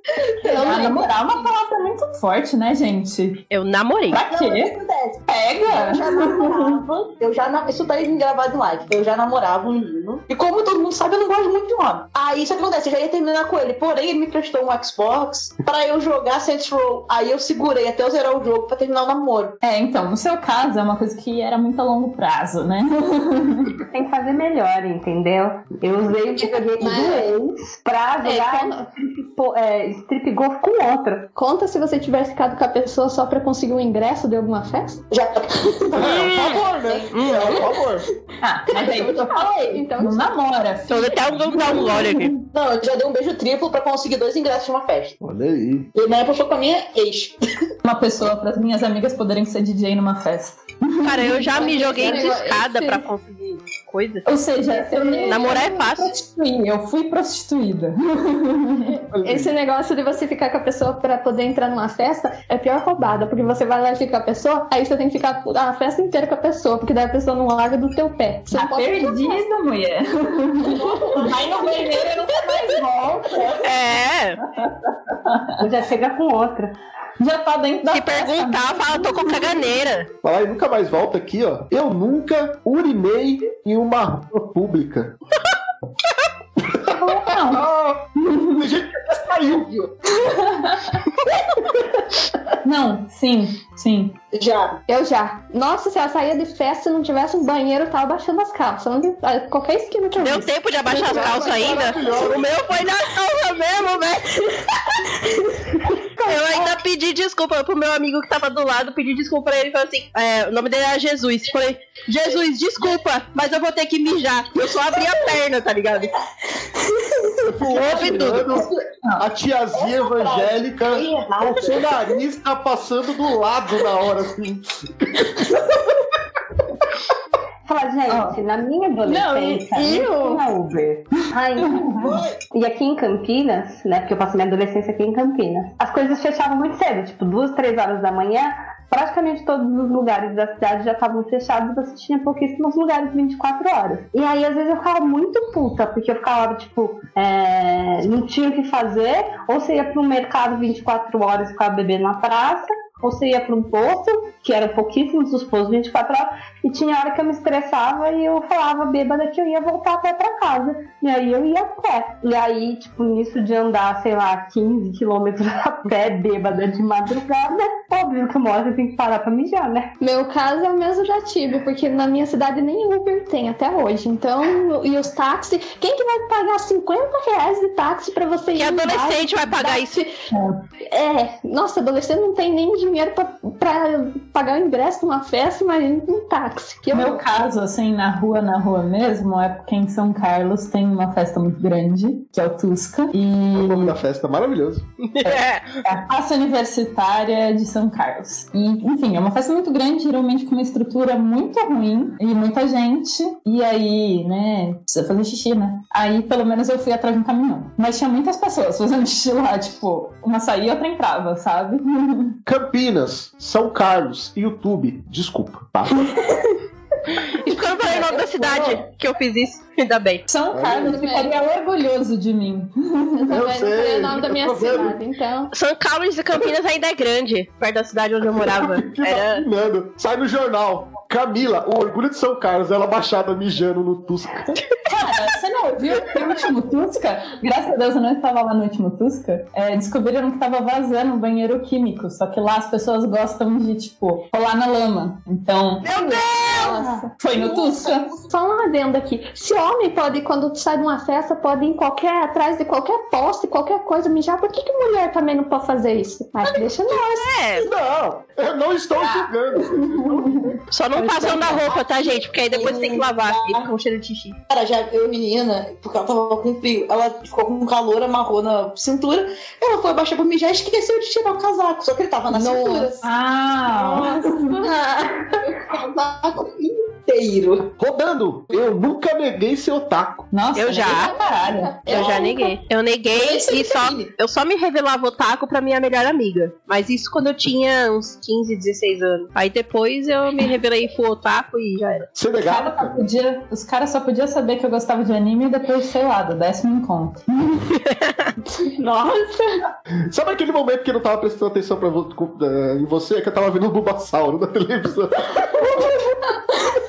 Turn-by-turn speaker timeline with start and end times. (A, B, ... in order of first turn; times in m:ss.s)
0:00.4-0:03.4 A
0:00.5-0:01.0 B
0:00.5-0:01.0 C
0:03.5-0:04.2 D
0:04.1-0:04.7 A
0:04.1-0:19.5 C
0:05.3-0:06.7 A
0:19.6-0:23.8 A
0:23.9-0:28.8 E
0:26.8-0:27.3 B
0:28.2-0:28.9 B
0:29.4-0:31.3 E
0:31.4-0:35.0 B
0:35.1-0:37.6 C
0:35.9-0:38.0 F
0:37.1-0:37.6 D
0:38.4-0:42.3 A
0:38.7-0:40.3 B
0:40.9-0:42.3 D
0:42.5-0:45.2 C
0:45.2-0:45.9 F
0:45.9-0:47.4 C
0:47.8-0:51.7 A
0:51.0-0:54.2 D
0:51.5-0:53.0 B
0:54.2-0:59.0 A
0:54.7-0:55.8 B
0:55.3-0:56.1 D
0:58.9-1:09.4 B
0:59.1-0:59.5 F
1:08.5-1:13.7 A
1:10.7-1:11.8 C
1:10.8-1:11.1 B
1:13.6-1:14.4 D
1:14.5-1:15.6 A
1:15.6-1:16.7 E
1:17.2-1:19.6 A
1:17.9-1:20.1 D
1:20.2-1:25.1 F
1:26.7-1:29.9 F
1:26.9-1:27.7 A
1:28.2-1:28.6 A
1:30.2-1:31.0 A
1:32.6-1:34.2 A
1:34.3-1:34.8 C
1:34.9-1:42.2 B
1:40.2-1:44.7 D
1:40.9-1:42.5 F
1:46.2-1:56.2 D
1:57.4-2:05.6 F
1:57.6-1:58.6 D
1:57.8-1:58.8 C
1:59.7-2:01.9 C
2:07.6-2:49.9 E
2:08.1-2:08.4 A
2:09.1-2:09.6 A
2:09.7-2:10.4 B
2:11.6-2:12.2 A
2:12.0-2:12.4 C
2:50.0-3:00.1 B
2:58.6-3:00.0 D
3:00.9-3:07.2 B
3:06.9-3:14.0 A
3:13.5-3:14.8 F
3:15.0-3:15.8 D
3:15.2-3:32.4 A
3:32.5-3:36.2 F
3:37.4-3:40.2 D
3:37.5-3:38.3 B
3:40.3-3:43.4 A
3:40.5-3:41.0 F
3:40.8-3:41.3 B
3:43.2-3:45.5 B
3:43.3-3:45.0 F
3:45.5-3:49.4 D
3:48.2-3:54.6 F
3:54.8-4:05.9 A
4:05.8-4:08.2 C
4:05.9-4:07.1 B
4:07.2-4:08.1 A
4:08.3-4:17.3 B
4:16.9-4:17.7 D
4:17.6-4:20.5 F
4:19.0-4:20.5 A
4:20.7-4:24.4 D
4:21.0-4:23.3 C
4:24.5-4:33.0 C
4:32.3-4:32.9 B
4:33.0-4:34.6 A
4:33.8-4:35.4 B
4:35.4-4:37.7 C
4:37.8-4:40.3 F
4:40.3-4:41.8 A
4:40.6-4:41.1 D
4:40.8-4:42.6 B
4:41.9-4:52.1 D
4:41.9-4:42.3 C
4:43.1-4:44.1 C
4:52.2-4:53.0 F
4:52.4-4:57.7 A
4:57.8-4:58.1 D
5:00.1-5:05.9 F